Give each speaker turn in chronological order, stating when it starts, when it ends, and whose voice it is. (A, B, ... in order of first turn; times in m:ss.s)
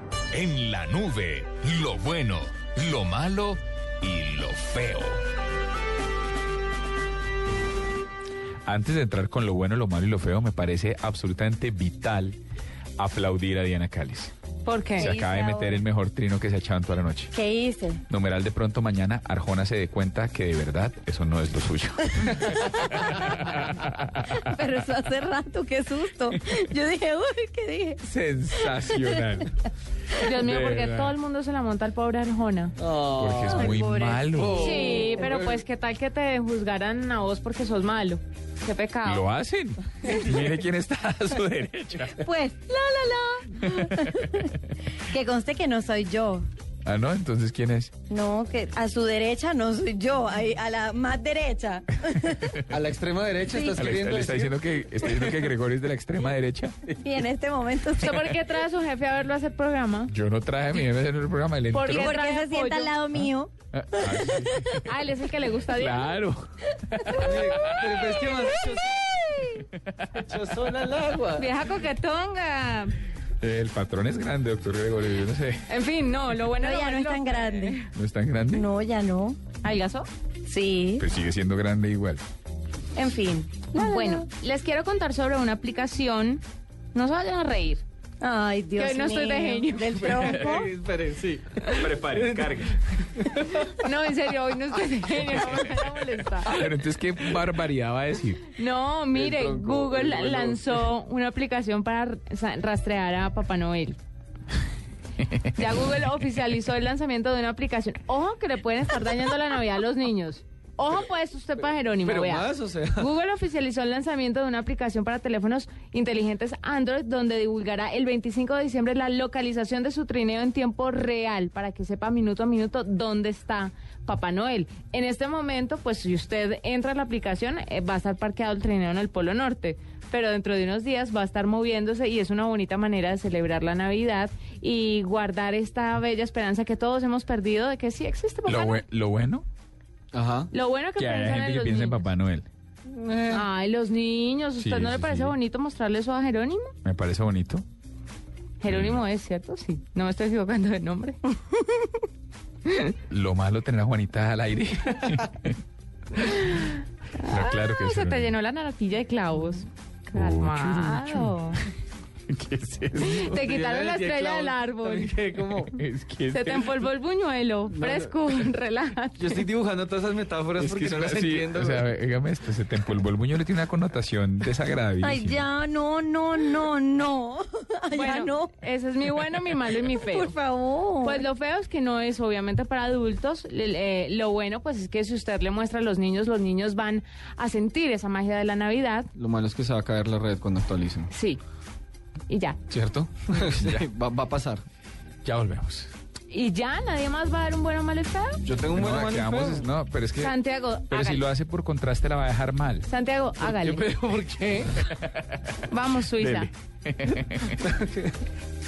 0:00.3-0:05.2 A
0:08.6-0:12.4 B
0:13.0-0:14.3 B
0:14.7-0:15.1 C
0:15.0-0:15.8 D
0:15.0-0:17.3 B
0:17.3-0:18.0 D
0:18.1-0:24.4 B
0:22.2-0:23.4 D
0:24.2-0:29.2 D
0:28.0-0:29.5 B
0:30.2-0:32.8 C
0:30.4-0:31.1 B
0:32.8-0:33.8 E
0:33.2-0:34.6 B
0:33.4-0:35.4 D
0:34.4-0:35.6 E
0:34.5-0:39.3 C
0:39.0-0:42.2 B
0:42.2-0:44.5 D
0:43.7-0:44.5 B
0:45.1-0:46.4 D
0:46.8-0:48.0 B
0:48.1-0:52.6 D
0:52.3-0:52.7 B
0:52.7-0:55.5 E
0:53.5-0:53.9 D
0:53.8-0:57.0 B
0:57.0-0:58.2 D
0:58.0-1:00.1 C
0:58.1-0:58.4 B
1:00.1-1:02.1 B
1:01.7-1:03.0 C
1:01.9-1:04.8 D
1:03.2-1:04.9 B
1:04.9-1:06.2 C
1:05.7-1:08.0 B
1:07.0-1:09.6 D
1:07.2-1:09.1 E
1:09.6-1:10.0 B
1:10.1-1:11.5 E
1:11.4-1:13.0 C
1:13.4-1:15.6 B
1:15.7-1:17.9 C
1:16.6-1:17.8 D
1:17.9-1:18.7 B
1:18.5-1:19.4 D
1:19.6-1:20.1 C
1:20.4-1:21.1 D
1:21.0-1:22.2 B
1:23.0-1:26.4 C
1:23.7-1:24.3 D
1:26.9-1:27.8 C
1:28.2-1:30.7 D
1:28.8-1:30.4 C
1:29.9-1:33.8 E
1:30.2-1:30.6 B
1:31.8-1:32.7 B
1:33.6-1:36.5 C
1:36.4-1:38.5 B
1:38.5-1:44.0 C
1:39.1-1:40.9 E
1:45.2-1:45.5 B
1:45.6-2:18.8 C
1:52.0-1:53.1 E
2:18.5-2:19.5 B
2:20.1-2:20.5 E
2:20.5-2:22.0 C
2:21.0-2:22.5 B
2:22.9-2:23.4 E
2:23.3-2:26.7 C
2:24.6-2:25.4 B
2:26.8-2:27.6 B
2:28.6-2:32.0 C
2:28.7-2:29.0 B
2:32.7-2:33.0 C
2:33.1-2:35.6 B
2:36.2-2:41.6 C
2:37.3-2:38.3 B
2:40.1-2:41.6 B
2:42.3-2:43.2 B
2:43.0-2:45.7 E
2:43.0-2:45.2 C
2:45.7-2:46.8 B
2:46.3-2:49.4 C
2:47.7-2:48.2 E
2:49.2-2:51.9 E
2:50.6-2:55.4 B
2:55.0-2:58.6 D
2:57.9-3:00.4 C
2:59.8-3:01.2 D
3:01.0-3:09.1 C
3:09.2-3:11.1 E
3:11.1-3:11.4 C
3:12.3-3:12.6 C
3:12.7-3:14.6 E
3:13.4-3:13.8 B
3:15.2-3:15.9 B
3:16.3-3:18.4 C
3:18.4-3:19.7 E
3:18.8-3:20.4 B
3:20.2-3:21.3 C
3:20.9-3:22.9 B
3:22.9-3:23.8 C
3:23.4-3:24.8 E
3:24.9-3:25.6 B
3:25.7-3:26.5 C
3:26.2-3:27.6 B
3:27.6-3:28.2 E